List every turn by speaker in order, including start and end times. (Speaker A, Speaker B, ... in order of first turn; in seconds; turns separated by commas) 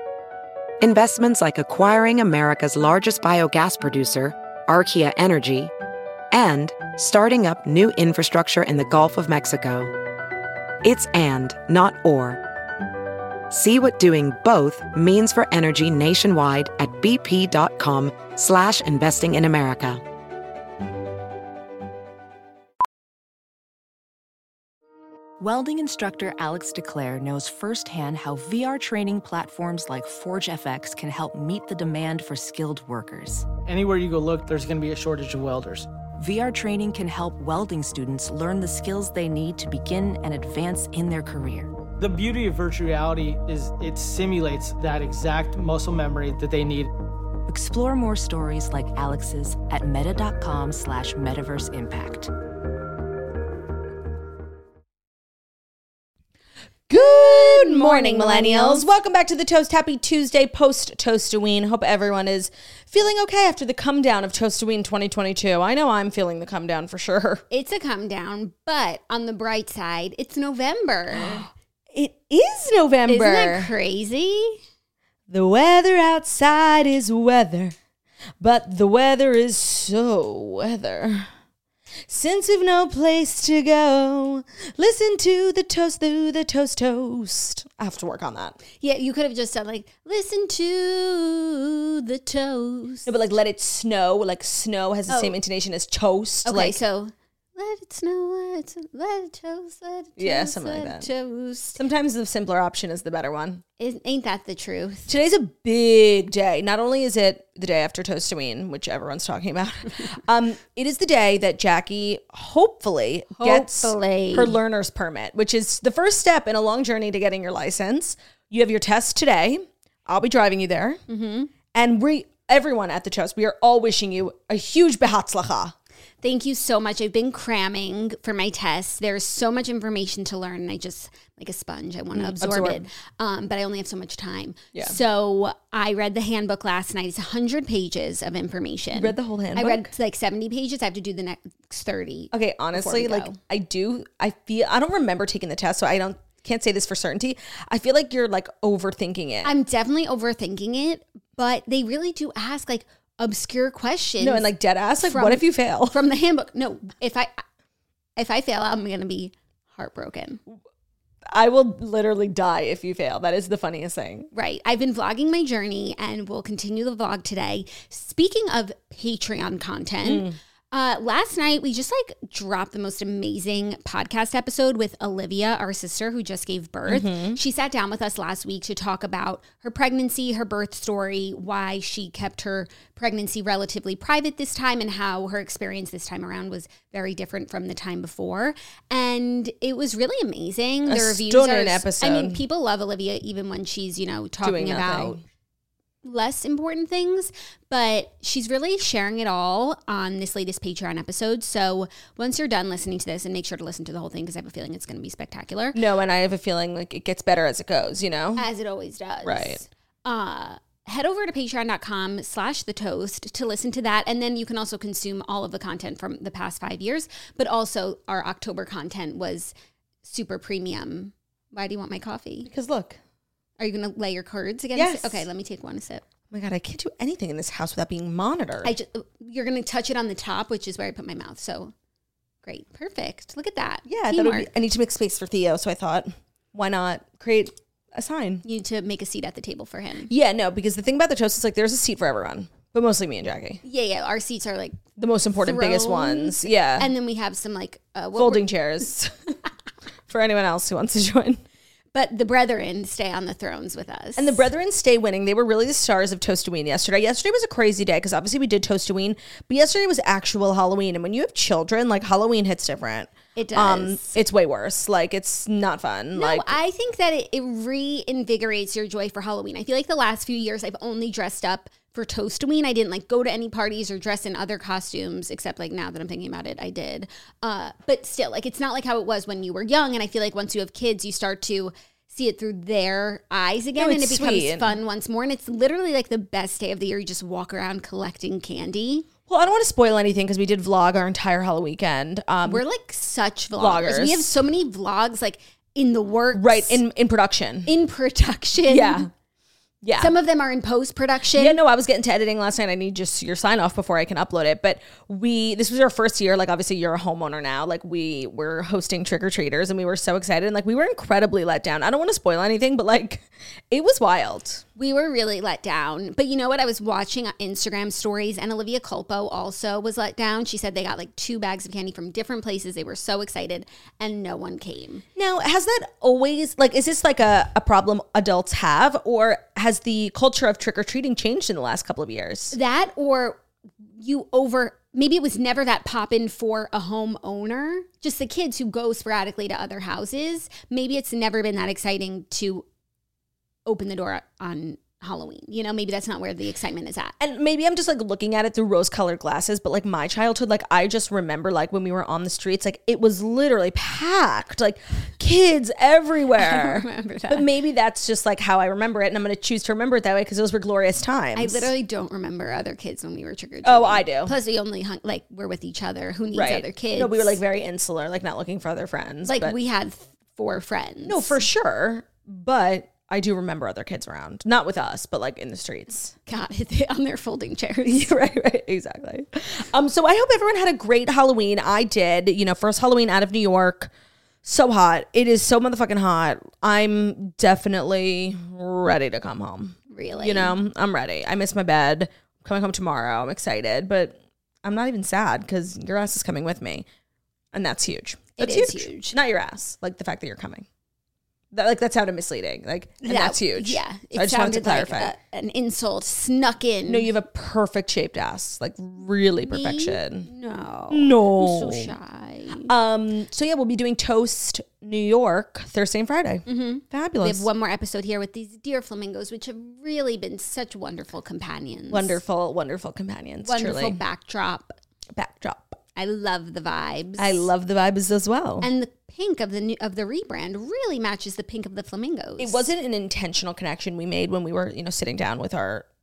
Speaker A: 0.8-5.7, Speaker A: 6.3-9.9, Speaker A: 10.8-12.4, Speaker A: 13.5-20.0, Speaker B: 25.4-33.5, Speaker C: 33.6-35.9, Speaker B: 36.2-41.7, Speaker C: 42.0-46.9, Speaker B: 47.5-52.3, Speaker D: 56.9-67.4, Speaker E: 56.9-58.9, Speaker E: 67.5-71.5, Speaker D: 71.2-73.7, Speaker E: 73.1-74.6, Speaker D: 75.3-77.7, Speaker D: 78.4-81.3, Speaker D: 82.1-88.6, Speaker E: 88.8-93.1, Speaker D: 93.0-96.8, Speaker E: 95.1-95.4, Speaker E: 96.4-101.8, Speaker D: 100.2-101.1, Speaker D: 101.8-103.6, Speaker E: 103.8-105.1, Speaker D: 105.1-121.0, Speaker E: 113.4-114.6, Speaker E: 121.1-121.5, Speaker D: 121.7-125.7, Speaker E: 126.2-143.4, Speaker D: 132.1-132.8, Speaker D: 138.9-139.9, Speaker D: 142.3-149.5, Speaker E: 149.4-154.5, Speaker D: 154.2-156.0, Speaker E: 155.0-157.4, Speaker E: 158.2-160.4, Speaker D: 161.3-164.3, Speaker E: 164.3-195.2, Speaker D: 170.0-170.3, Speaker D: 176.9-177.4, Speaker D: 190.9-192.4, Speaker D: 194.4-195.2, Speaker E: 196.0-205.8, Speaker D: 205.7-208.4, Speaker E: 208.3-219.5, Speaker D: 209.2-209.6, Speaker E: 220.0-222.5, Speaker D: 222.4-223.0, Speaker E: 223.6-226.0, Speaker D: 224.8-225.2, Speaker D: 226.3-228.7, Speaker E: 228.6-231.7, Speaker E: 232.4-234.5, Speaker D: 233.8-238.4, Speaker E: 238.4-240.1, Speaker D: 240.1-243.6, Speaker E: 243.6-244.8, Speaker D: 245.0-246.9, Speaker E: 245.4-248.5, Speaker D: 248.2-249.3, Speaker D: 250.1-251.4, Speaker E: 251.9-254.4, Speaker D: 254.2-266.6, Speaker E: 263.4-264.2, Speaker E: 266.1-289.1, Speaker D: 283.8-284.8, Speaker D: 289.3-292.6, Speaker E: 292.4-296.8, Speaker D: 293.6-294.3, Speaker D: 296.3-297.7, Speaker E: 297.6-299.1, Speaker D: 298.7-299.1, Speaker D: 299.8-300.1, Speaker E: 300.0-301.6, Speaker D: 301.4-314.6, Speaker E: 314.8-325.0, Speaker D: 325.1-332.6, Speaker E: 332.5-333.4, Speaker E: 334.0-342.6, Speaker E: 343.6-347.1, Speaker D: 347.2-361.7, Speaker E: 356.4-357.4, Speaker E: 361.3-367.4, Speaker D: 363.6-364.3, Speaker D: 366.3-369.6, Speaker E: 369.3-371.4, Speaker D: 371.1-376.1, Speaker E: 376.2-378.2, Speaker D: 377.8-383.9, Speaker D: 384.4-396.9, Speaker E: 389.9-390.6, Speaker D: 397.5-400.6, Speaker E: 398.4-399.1, Speaker D: 401.5-405.1, Speaker E: 403.0-407.1, Speaker D: 406.9-410.3, Speaker E: 409.5-412.7, Speaker D: 410.9-411.9, Speaker D: 412.6-417.5, Speaker E: 416.4-422.2, Speaker D: 421.9-424.0, Speaker E: 423.4-424.8, Speaker D: 425.1-425.8, Speaker E: 425.9-427.5, Speaker D: 427.2-428.7, Speaker E: 428.6-432.7, Speaker D: 432.4-435.9